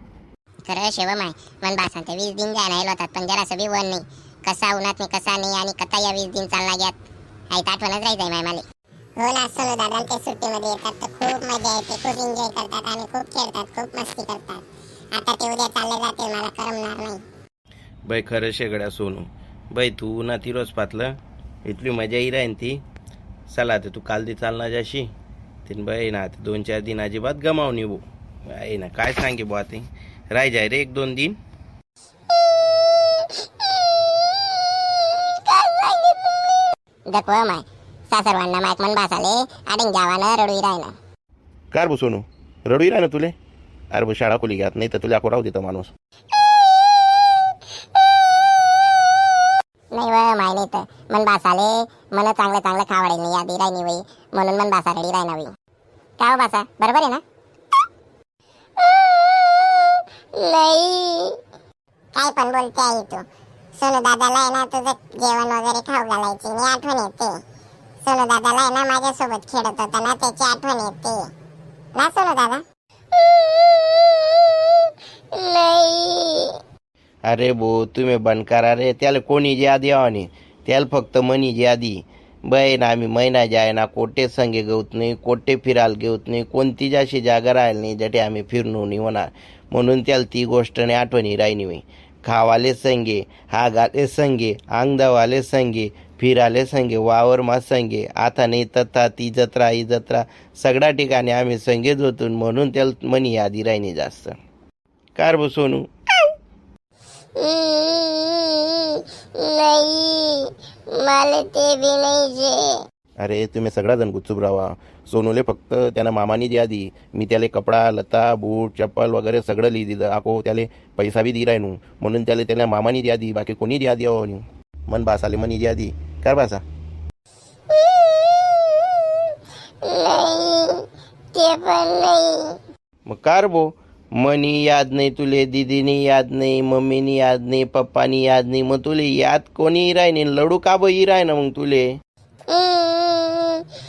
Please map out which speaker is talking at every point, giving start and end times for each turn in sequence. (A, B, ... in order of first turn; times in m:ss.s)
0:00.6-0:07.0 A
0:07.5-0:08.6 A
0:09.2-0:17.2 A
0:18.0-0:22.8 B
0:23.5-0:25.1 B
0:25.6-0:31.4 B
0:32.4-0:40.9 A
0:41.7-0:43.3 B
0:43.9-0:45.9 B
0:46.3-0:49.3 A
0:49.9-0:55.5 A
0:56.2-0:57.2 A
0:58.8-1:01.4 A
1:02.1-1:03.2 A
1:03.8-1:07.4 A
1:08.0-1:11.3 A
1:11.9-1:16.5 A
1:17.3-1:44.4 B
1:45.2-1:45.9 B
1:47.4-1:52.8 A
1:53.2-2:06.6 B
2:07.7-2:09.3 A
2:09.8-2:12.6 A
2:13.1-2:21.9 B
2:22.5-2:23.6 A